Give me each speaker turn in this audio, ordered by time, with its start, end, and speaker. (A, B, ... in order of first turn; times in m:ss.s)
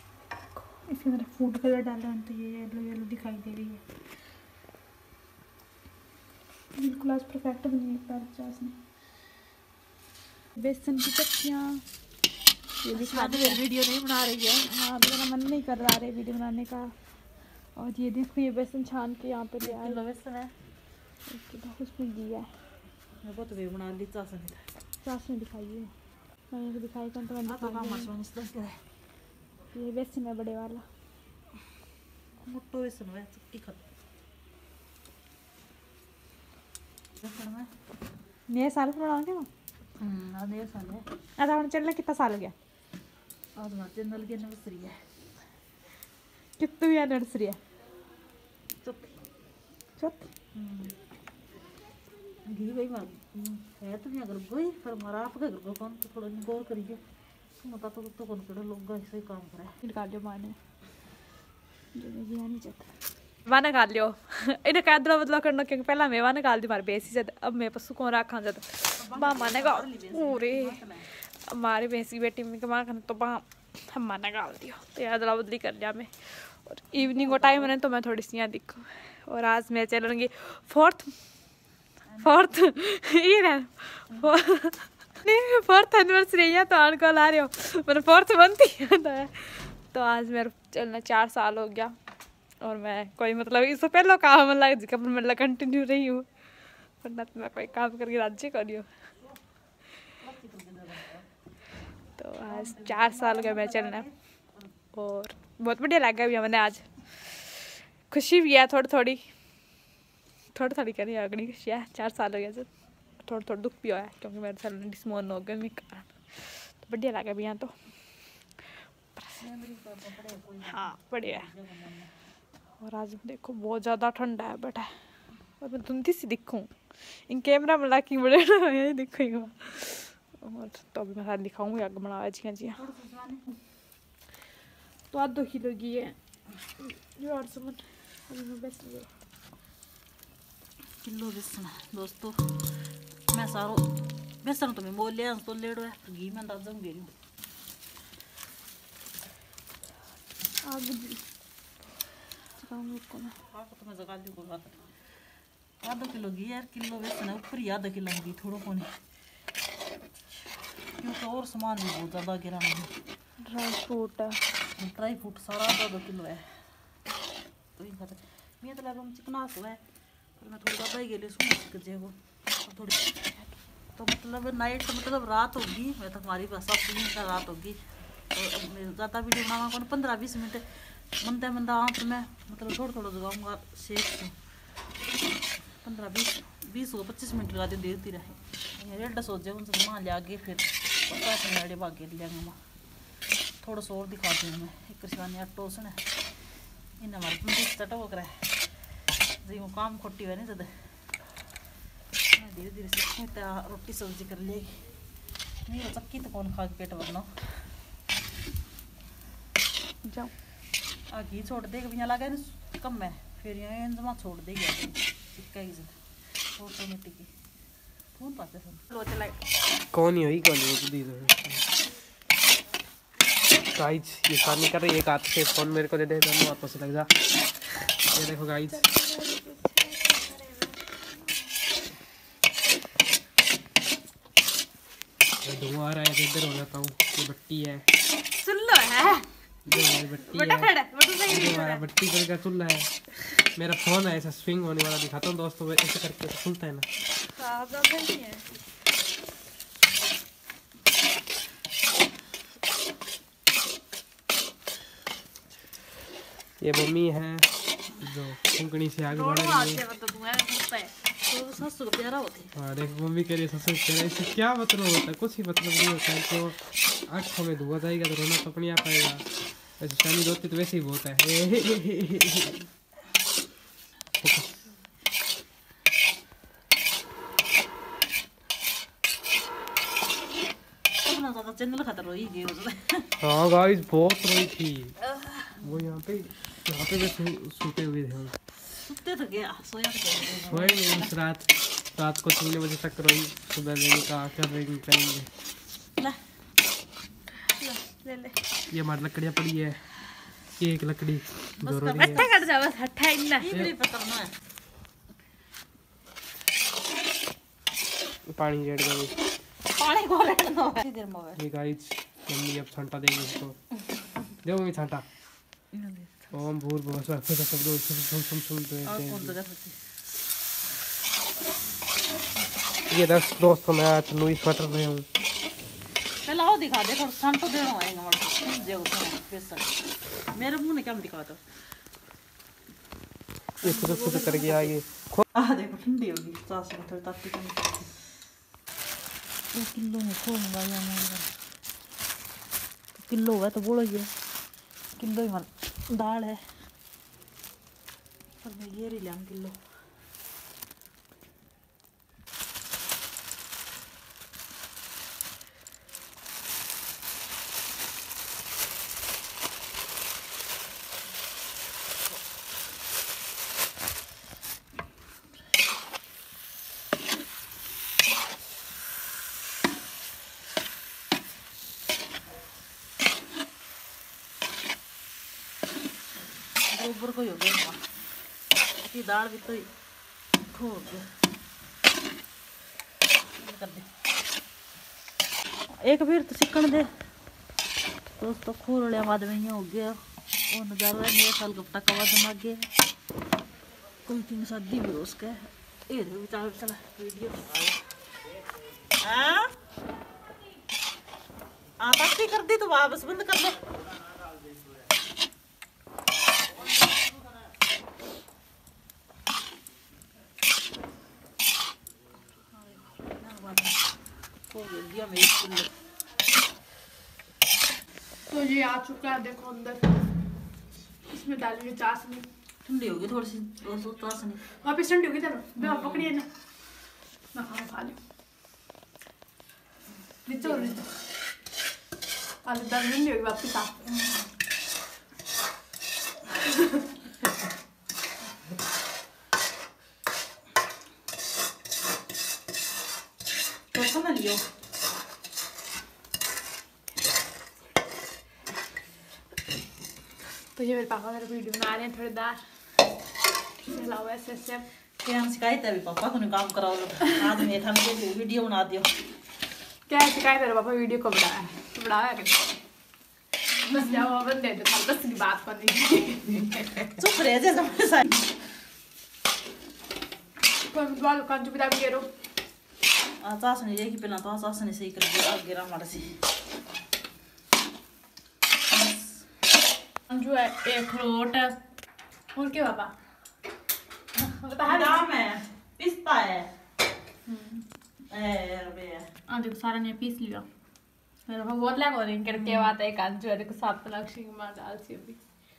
0:00.6-0:03.8 A
0:06.8-0:08.8 A
0:10.6-0:11.8 A
0:12.8-0:13.6 A
0:12.9-0:14.4 B
0:14.4-0:16.9 A
0:17.8-0:20.0 A
0:19.6-0:20.5 B
0:21.3-0:22.5 A
0:23.2-0:24.6 B
0:25.0-0:25.9 A
0:26.5-0:28.1 A
0:27.4-0:28.8 B
0:29.7-0:30.8 A
0:32.4-0:33.8 B
0:37.2-0:37.7 B
0:38.5-0:39.5 A
0:40.0-0:41.0 B
0:41.4-0:42.6 A
0:43.6-0:45.0 B
0:46.6-0:47.6 A
0:50.0-0:50.3 A
0:50.5-0:50.9 B
0:52.4-0:57.0 B
0:57.6-0:59.7 B
0:59.8-1:00.6 A
1:01.9-1:02.9 A
1:03.4-1:10.8 A
1:09.0-1:11.1 B
1:11.5-1:21.1 A
1:16.9-1:17.7 B
1:22.0-1:22.5 B
1:22.2-1:31.9 A
1:24.1-1:24.3 B
1:32.6-1:36.3 A
1:37.0-1:38.9 A
1:40.1-1:41.2 B
1:42.2-1:44.0 A
1:42.4-1:44.7 B
1:44.9-1:49.2 A
1:50.5-1:52.7 A
1:53.2-1:57.7 A
1:59.3-2:02.1 B
2:00.7-2:01.5 A
2:02.8-2:04.9 A
2:05.6-2:12.8 A
2:12.8-2:13.4 B
2:15.1-2:16.2 A
2:16.8-2:19.1 A
2:21.0-2:22.6 B
2:23.3-2:23.9 B
2:24.4-2:27.1 B
2:30.6-2:31.2 A
2:32.6-2:33.4 A
2:33.5-2:34.8 B
2:35.8-2:38.9 B
2:41.0-2:42.9 B
2:43.4-2:44.4 A
2:44.8-2:46.5 B
2:47.8-2:49.8 B
2:50.4-2:57.8 B
2:58.3-3:04.3 B
3:05.8-3:12.6 B
3:13.6-3:16.0 B
3:17.0-3:18.5 B
3:19.4-3:20.7 B
3:22.4-3:24.8 B
3:25.7-3:27.3 B
3:30.0-3:30.3 A
3:31.1-3:35.9 B
3:36.5-3:37.3 B
3:38.2-3:38.8 B
3:38.9-3:39.4 A
3:39.9-3:41.7 C
3:43.7-3:47.1 C
3:48.1-3:48.9 C
3:48.7-3:51.5 A
3:55.4-3:57.8 C
3:58.3-4:01.8 A
3:59.7-4:02.9 C
4:03.5-4:06.8 C
4:07.3-4:08.4 A
4:16.6-4:19.8 C
4:19.1-4:20.9 A
4:21.2-4:22.5 B
4:22.6-4:29.2 C
4:29.8-4:32.6 C
4:34.2-4:34.6 C
4:41.0-4:43.1 B
4:43.2-4:45.0 C
4:45.6-4:48.4 C
4:48.7-4:51.1 B
4:50.5-4:55.3 C
4:57.6-4:58.4 A
4:58.7-4:59.8 C
5:00.6-5:02.2 C
5:01.6-5:02.5 B
5:02.0-5:03.5 A
5:03.4-5:04.3 B
5:08.3-5:09.1 C
5:09.6-5:11.4 B
5:11.4-5:13.6 C
5:14.4-5:15.0 C
5:15.7-5:16.4 B
5:16.3-5:19.4 C
5:18.8-5:19.8 B
5:22.9-5:25.1 C
5:26.2-5:29.7 B
5:30.3-5:31.4 B
5:33.6-5:34.8 B
5:33.6-5:35.2 C
5:35.3-5:37.8 B
5:39.5-5:41.3 B
5:43.0-5:44.1 B
5:45.0-5:46.4 B
5:48.4-5:49.6 B
6:16.7-6:17.9 B
6:18.8-6:19.7 B
6:20.5-6:21.1 B
6:23.4-6:23.9 B
6:25.8-6:26.9 B
6:28.2-6:32.7 B
6:34.1-6:37.8 B
6:39.0-6:39.5 B
6:41.8-6:43.6 B
6:52.5-6:53.8 B
6:54.5-6:55.7 B
6:58.3-7:00.0 A
7:01.1-7:02.3 A
7:02.6-7:04.4 B
7:04.6-7:06.3 A
7:05.6-7:06.1 B
7:07.3-7:08.0 A
7:10.2-7:10.9 A
7:10.4-7:10.8 B
7:12.4-7:13.7 A
7:23.7-7:24.4 B
7:30.6-7:32.4 A
7:33.6-7:34.6 A
7:35.0-7:38.9 B
7:39.9-7:42.6 A
7:43.6-7:46.9 A
7:46.9-7:48.3 B
7:50.6-7:52.1 A
7:53.2-7:56.2 B
7:58.7-7:59.3 B
8:00.1-8:01.6 A
8:02.4-8:02.9 A
8:04.3-8:05.2 A
8:04.6-8:06.5 B
8:07.3-8:07.6 A
8:08.1-8:09.1 B
8:09.3-8:10.5 A
8:11.3-8:15.2 A
8:12.3-8:12.7 B